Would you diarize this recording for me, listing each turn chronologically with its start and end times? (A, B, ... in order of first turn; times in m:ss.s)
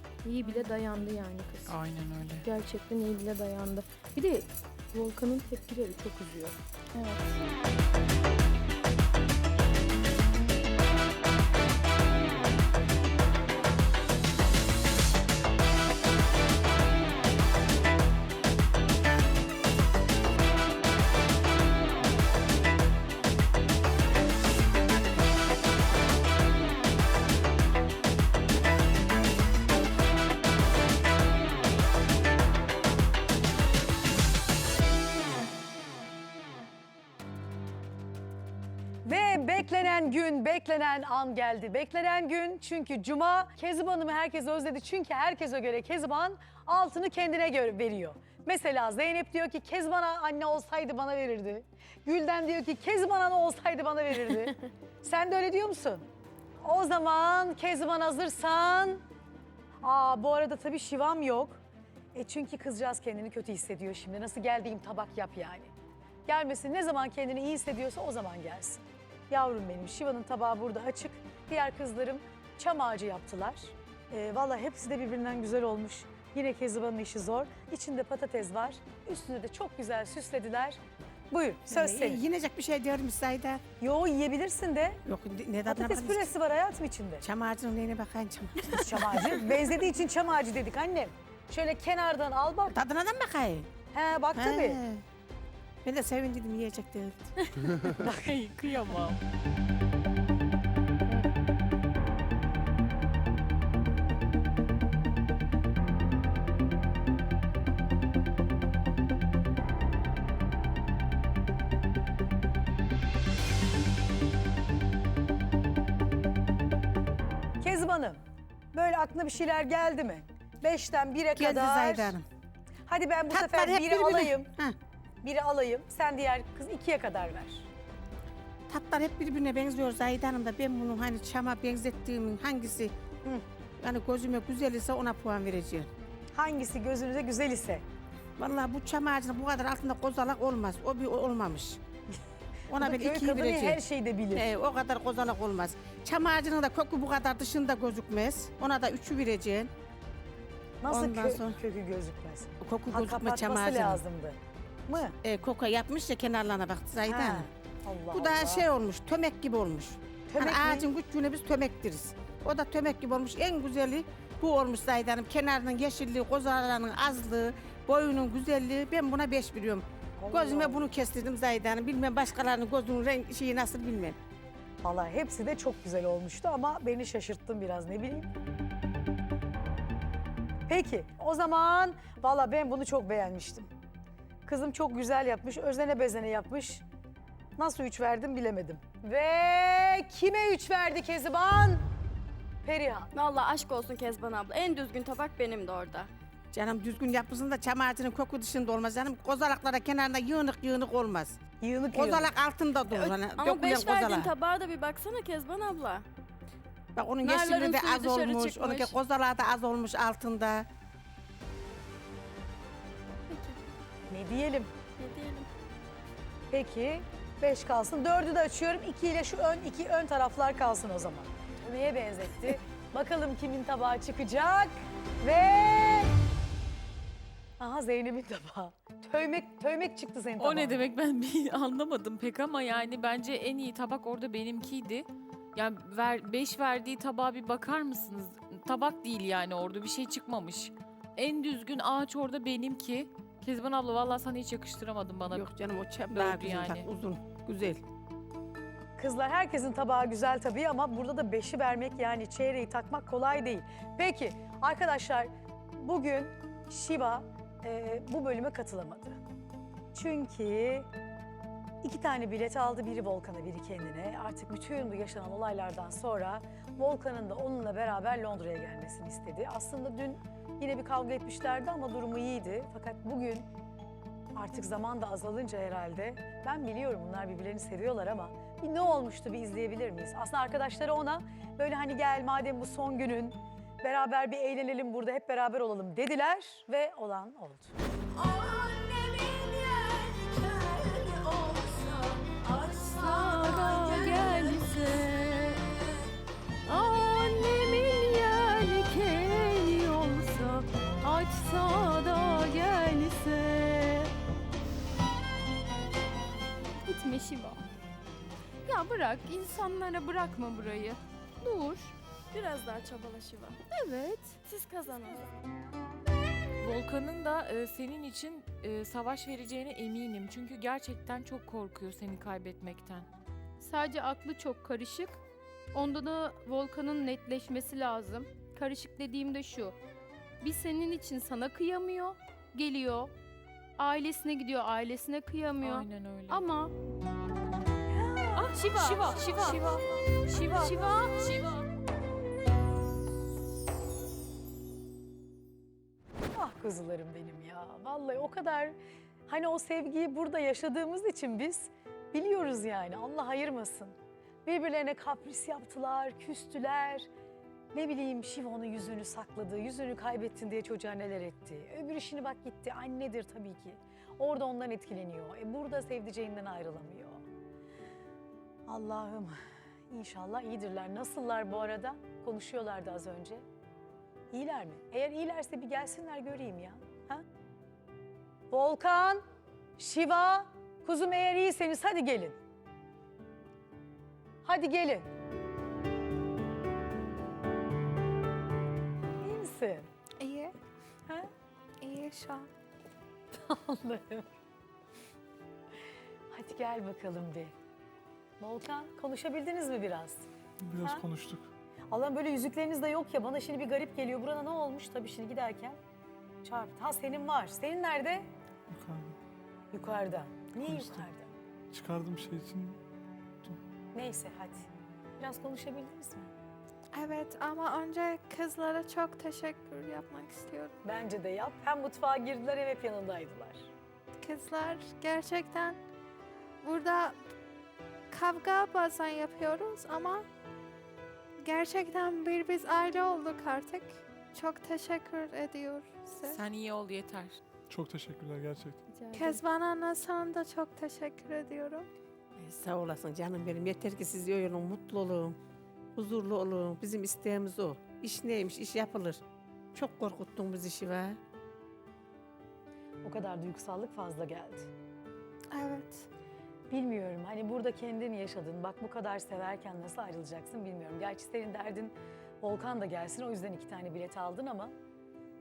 0:00.2-0:01.8 A
0:01.9-0:02.3 B
0:02.4-0:06.6 A
0:39.0-0:56.1 C
0:56.6-0:59.0 C
0:59.8-1:01.6 C
1:02.2-1:05.7 C
1:06.3-1:22.2 C
1:21.7-1:23.6 D
1:23.8-1:25.0 C
1:25.0-1:26.3 D
1:25.6-1:27.2 C
1:27.2-1:29.4 D
1:28.8-1:32.8 C
1:32.7-1:33.7 D
1:33.9-1:34.8 C
1:34.3-1:35.0 D
1:35.8-1:37.3 D
1:37.9-1:38.3 C
1:38.1-1:39.2 E
1:57.6-1:58.2 C
1:58.7-2:02.2 C
2:01.4-2:02.3 D
2:02.9-2:04.5 C
2:03.3-2:04.8 D
2:05.2-2:07.7 C
2:08.7-2:12.9 D
2:13.8-2:15.9 D
2:16.4-2:17.8 C
2:18.4-2:21.8 D
2:22.7-2:23.8 D
2:22.8-2:24.5 C
2:24.3-2:29.7 D
2:30.8-2:35.2 C
2:30.9-2:31.6 D
2:32.6-2:34.0 D
2:35.2-2:37.5 D
2:37.1-2:38.7 C
2:38.1-2:54.2 D
2:40.3-2:40.9 C
2:50.2-2:50.9 C
2:54.8-2:58.3 C
3:00.7-3:03.7 C
3:04.5-3:06.8 C
3:07.6-3:11.8 C
3:12.6-3:13.1 C
3:13.1-3:16.1 F
3:16.5-3:21.4 D
3:21.6-3:22.3 C
3:21.9-3:24.3 D
3:22.9-3:26.1 F
3:27.0-3:30.7 D
3:27.2-3:29.0 F
3:33.3-3:33.6 F
3:34.1-3:34.7 C
3:35.0-3:35.5 F
3:36.5-3:46.1 C
3:47.6-3:50.9 C
3:50.4-4:05.5 E
4:05.3-4:07.8 D
4:06.1-4:06.9 E
4:09.0-4:19.2 C
4:19.9-4:20.9 C
4:21.8-4:33.5 C
4:34.4-4:47.7 C
4:48.3-4:54.8 F
4:48.9-4:49.5 A
4:52.4-4:55.6 A
4:56.7-5:04.1 A
5:06.8-5:07.6 A
5:08.6-5:11.9 A
5:12.3-5:13.6 F
5:13.7-5:14.4 A
5:14.5-5:15.4 F
5:16.6-5:23.1 E
5:23.6-5:25.2 A
5:25.7-5:29.8 A
5:30.4-5:33.1 A
5:33.8-5:36.7 A
5:35.6-5:36.4 E
5:37.9-5:38.5 C
5:38.4-5:41.6 E
5:38.4-5:39.8 A
5:40.3-5:41.4 A
5:46.4-5:48.8 C
5:49.3-5:54.0 C
5:54.5-5:57.1 C
5:57.7-6:07.2 C
6:08.7-6:09.4 C
6:09.9-6:13.4 C
6:14.3-6:17.2 C
6:18.5-6:19.2 C
6:19.8-6:22.4 C
6:24.4-6:25.1 C
6:29.2-6:29.9 C
6:31.8-6:32.2 B
6:33.3-6:34.3 C
6:36.3-6:37.5 C
6:38.4-6:40.2 C
6:40.6-6:41.5 G
6:41.9-6:45.8 C
6:46.4-6:48.3 C
6:48.7-6:49.2 G
6:49.7-6:51.3 C
6:50.6-6:51.0 G
6:51.7-6:52.8 G
6:53.9-6:54.7 C
6:55.2-6:56.3 C
6:57.0-7:00.7 B
7:00.8-7:03.7 C
7:04.2-7:05.8 B
7:06.6-7:07.2 B
7:08.1-7:10.2 B
7:11.5-7:16.4 B
7:16.2-7:17.4 E
7:17.7-7:18.8 G
7:18.9-7:19.4 A
7:19.2-7:21.9 B
7:22.4-7:25.4 D
7:26.0-7:29.2 D
7:29.7-7:31.2 D
7:33.0-7:34.7 C
7:36.7-7:44.7 C